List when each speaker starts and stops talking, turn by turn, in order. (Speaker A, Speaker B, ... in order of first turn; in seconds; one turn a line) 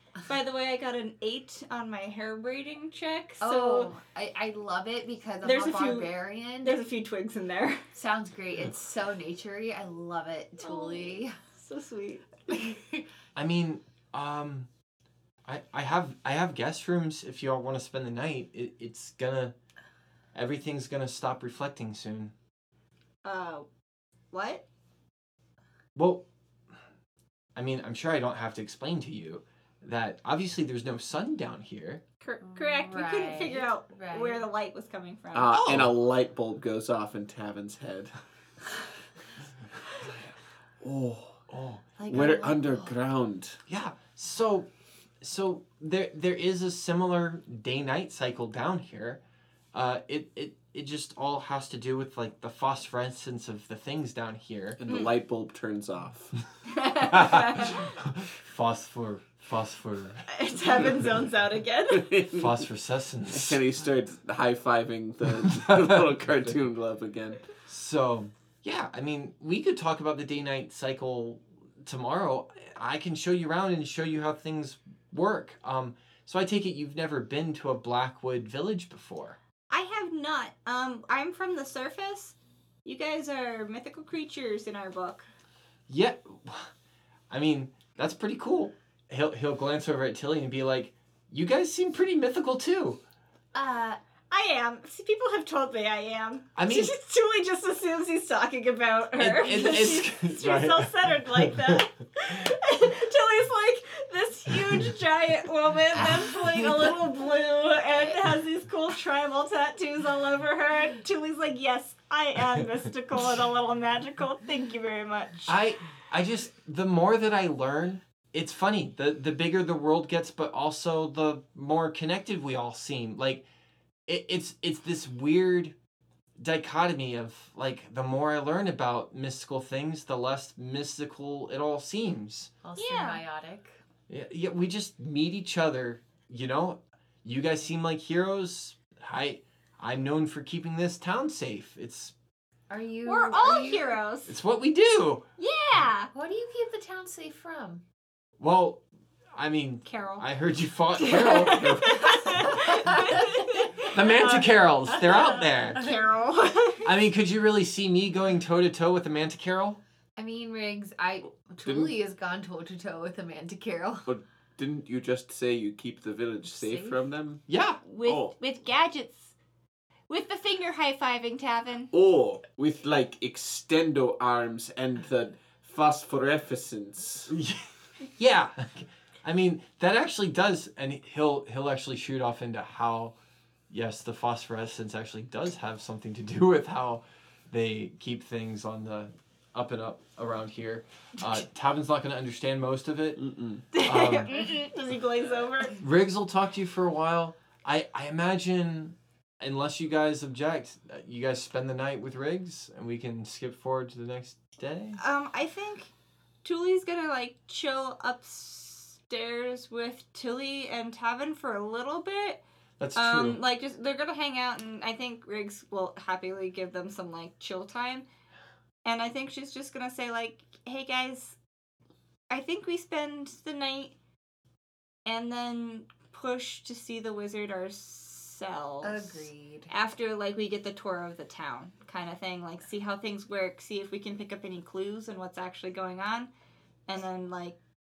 Speaker A: 0.2-3.9
Speaker B: 3.4-6.9
Speaker A: 5.4-7.8
Speaker B: 7.9-11.3
Speaker A: 10.6-12.7
Speaker B: 12.5-12.8
Speaker C: 13.3-14.7
Speaker C: 15.4-19.6
Speaker C: 20.3-22.3
Speaker A: 23.2-23.7
Speaker A: 24.3-24.6
Speaker C: 26.0-26.2
Speaker C: 27.6-32.0
Speaker A: 32.2-35.7
Speaker B: 32.6-34.5
Speaker D: 35.3-38.1
Speaker C: 35.5-35.9
Speaker D: 40.8-41.5
Speaker C: 41.5-42.3
Speaker B: 42.0-43.0
Speaker D: 42.1-43.6
Speaker C: 43.7-44.7
Speaker C: 45.2-49.2
Speaker C: 49.7-54.8
Speaker D: 54.8-56.3
Speaker A: 54.9-55.1
Speaker A: 56.7-57.8
Speaker C: 57.0-60.2
Speaker A: 60.3-62.1
Speaker D: 61.9-62.6
Speaker C: 62.3-63.6
Speaker D: 63.3-67.4
Speaker C: 65.5-66.6
Speaker C: 67.7-79.4
Speaker A: 79.7-85.3
Speaker C: 85.9-86.7
Speaker C: 87.3-93.0
Speaker B: 93.5-94.0
Speaker A: 94.3-115.5
Speaker C: 96.6-97.0
Speaker C: 99.2-101.8
Speaker C: 115.5-123.5
Speaker C: 124.1-125.8
Speaker C: 126.4-132.5
Speaker B: 132.6-133.8
Speaker A: 132.8-133.2
Speaker C: 134.1-142.2
Speaker B: 142.7-144.0
Speaker A: 143.1-144.4
Speaker C: 144.3-145.2
Speaker A: 145.4-146.1
Speaker B: 146.1-147.8
Speaker C: 148.4-148.8
Speaker C: 149.3-153.0
Speaker A: 149.9-150.2
Speaker A: 151.0-156.9
Speaker B: 152.4-153.6
Speaker C: 153.8-155.9
Speaker C: 156.8-159.8
Speaker B: 160.2-164.1
Speaker D: 161.7-161.9
Speaker D: 164.1-167.4
Speaker B: 166.5-167.0
Speaker C: 167.5-167.8
Speaker A: 167.8-169.3
Speaker D: 168.0-168.3
Speaker A: 170.1-171.9
Speaker D: 171.9-177.3
Speaker C: 177.3-183.2
Speaker C: 183.7-194.5
Speaker D: 193.2-193.6
Speaker A: 193.7-195.8
Speaker C: 195.8-205.0
Speaker A: 205.0-205.9
Speaker A: 206.4-212.4
Speaker C: 212.8-213.4
Speaker A: 213.0-218.1
Speaker A: 218.8-221.4
Speaker A: 222.3-223.9
Speaker A: 225.1-236.3
Speaker B: 228.8-229.7
Speaker A: 236.9-237.6